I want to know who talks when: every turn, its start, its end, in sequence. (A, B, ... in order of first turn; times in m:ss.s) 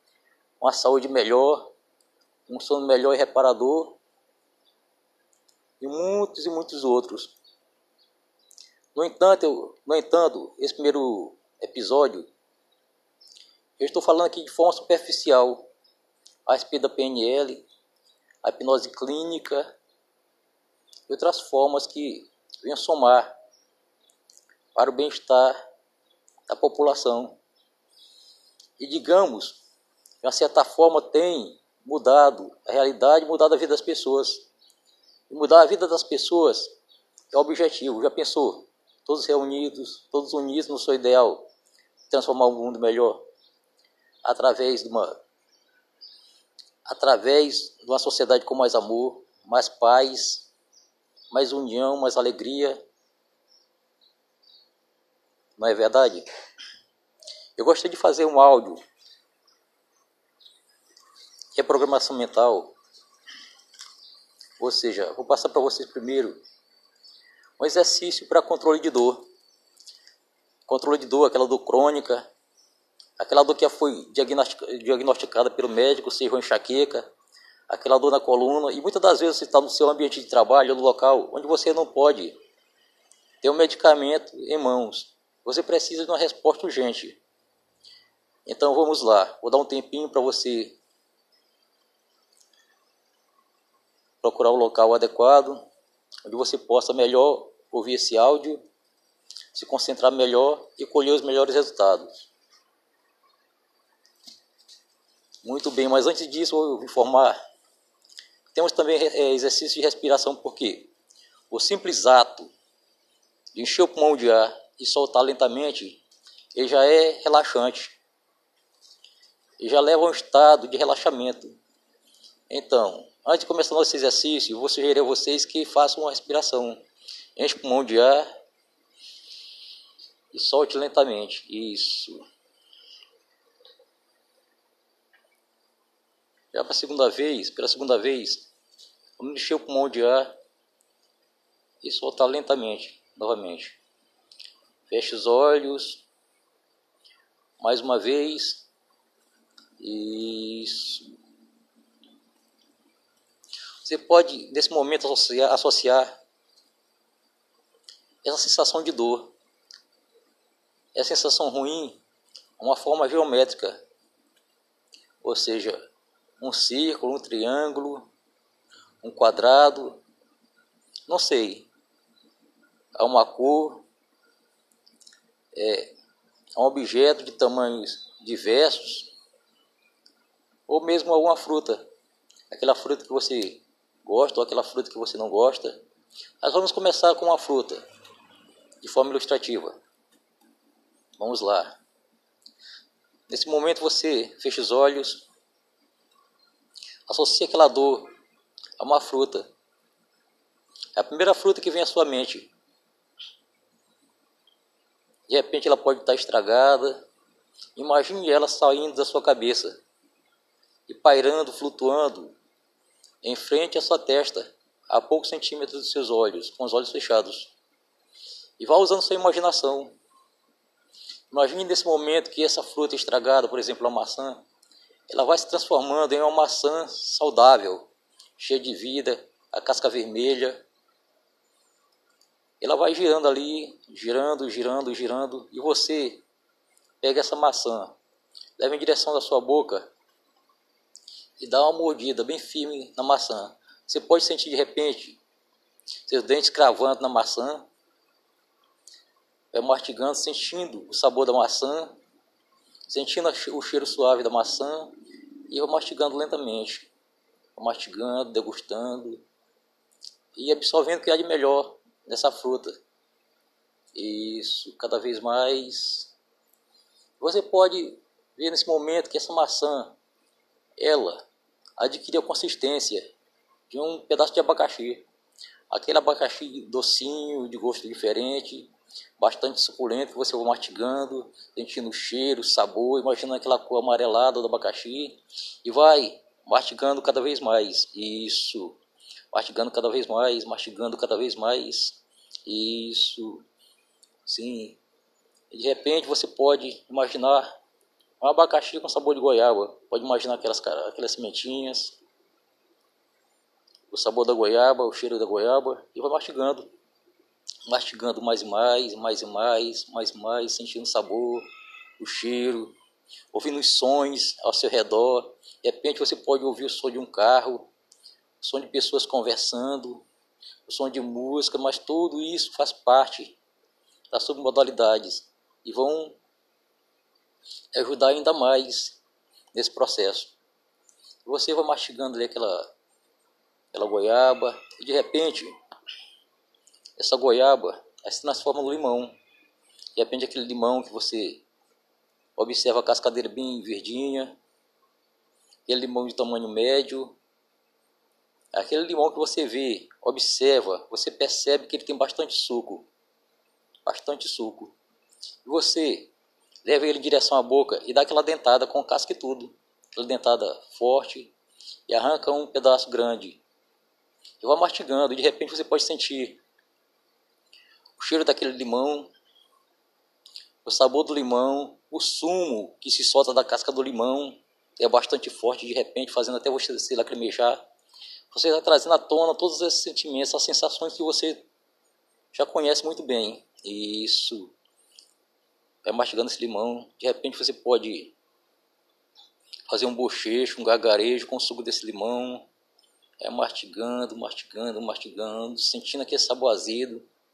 0:00.6-0:01.7 A
0:02.5-0:04.0 A
0:05.8-0:07.4 A
0:09.0-0:12.3 A
0:13.8-0:15.7 A
0:16.5-0:17.7 A
0:18.4-0:19.8 A
0:21.1-0:23.3 A
0:24.8-0:25.6 A
0:26.5-0:27.4 A
0:28.8-0:29.6 A
0:30.2-0:34.5 A
0:35.3-0:36.7 A
0:37.3-0:41.5 A
0:42.1-0:43.3 A
0:44.2-0:45.2 A
0:46.9-0:50.5 A
0:51.3-0:52.8 A
0:55.6-0:56.3 A
0:57.6-0:58.8 A
1:01.6-1:02.8 A
1:04.6-1:06.4 A
1:07.6-1:09.3 A
1:10.7-1:12.3 A
1:13.2-1:17.1 A
1:17.7-1:22.4 A
1:23.4-1:27.2 A
1:28.5-1:30.8 A
1:34.2-1:35.7 A
1:36.2-1:38.6 A
1:39.5-1:42.3 A
1:45.4-1:47.4 A
1:48.5-1:50.9 A
1:51.5-1:52.5 A
1:53.6-1:56.0 A
1:56.5-1:58.0 A
1:59.6-2:01.6 A
2:02.5-2:06.8 A
2:07.4-2:08.3 A
2:10.3-2:12.2 A
2:16.5-2:18.5 A
2:19.2-2:20.3 A
2:21.8-2:23.8 A
2:24.9-2:26.0 A
2:27.6-2:28.7 A
2:29.8-2:31.1 A
2:33.8-2:36.2 A
2:38.2-2:39.3 A
2:40.9-2:42.0 A
2:42.6-2:43.8 A
2:45.2-2:45.8 A
2:46.4-2:48.1 A
2:49.0-2:50.0 A
2:51.1-2:51.7 A
2:53.0-2:53.8 A
2:55.6-2:55.9 A
2:56.6-2:59.1 A
3:00.7-3:01.8 A
3:02.5-3:05.8 A
3:06.4-3:07.8 A
3:08.8-3:09.8 A
3:11.2-3:11.8 A
3:13.3-3:15.2 A
3:17.1-3:18.1 A
3:18.8-3:19.5 A
3:21.0-3:22.5 A
3:25.3-3:27.1 A
3:27.8-3:29.8 A
3:30.9-3:32.4 A
3:33.2-3:37.5 A
3:38.6-3:40.0 A
3:41.3-3:44.4 A
3:45.1-3:50.6 A
3:52.6-3:56.2 A
3:57.0-3:58.0 A
3:58.6-3:59.9 A
4:01.4-4:05.2 A
4:06.1-4:07.7 A
4:09.5-4:12.0 A
4:12.9-4:14.9 A
4:15.5-4:16.9 A
4:17.6-4:19.2 A
4:20.4-4:22.7 A
4:24.0-4:26.1 A
4:27.2-4:30.0 A
4:30.8-4:31.2 A
4:31.8-4:33.1 A
4:33.7-4:35.1 A
4:35.7-4:48.8 A
4:49.3-4:53.4 A
4:54.2-4:54.8 A
4:55.5-4:57.5 A
4:58.2-5:02.0 A
5:03.9-5:06.7 A
5:07.7-5:11.5 A
5:12.0-5:12.7 A
5:13.3-5:17.7 A
5:18.4-5:20.1 A
5:20.7-5:23.4 A
5:24.1-5:26.2 A
5:27.7-5:29.0 A
5:29.5-5:30.4 A
5:31.2-5:32.7 A
5:33.7-5:35.6 A
5:37.0-5:39.1 A
5:40.0-5:41.4 A
5:42.4-5:44.4 A
5:45.7-5:47.2 A
5:48.5-5:52.9 A
5:53.8-5:54.8 A
5:55.4-5:56.1 A
5:56.6-6:01.3 A
6:01.9-6:03.4 A
6:04.4-6:06.4 A
6:08.0-6:09.1 A
6:10.6-6:17.6 A
6:18.3-6:21.4 A
6:22.3-6:24.5 A
6:25.8-6:28.1 A
6:29.7-6:32.5 A
6:33.2-6:37.1 A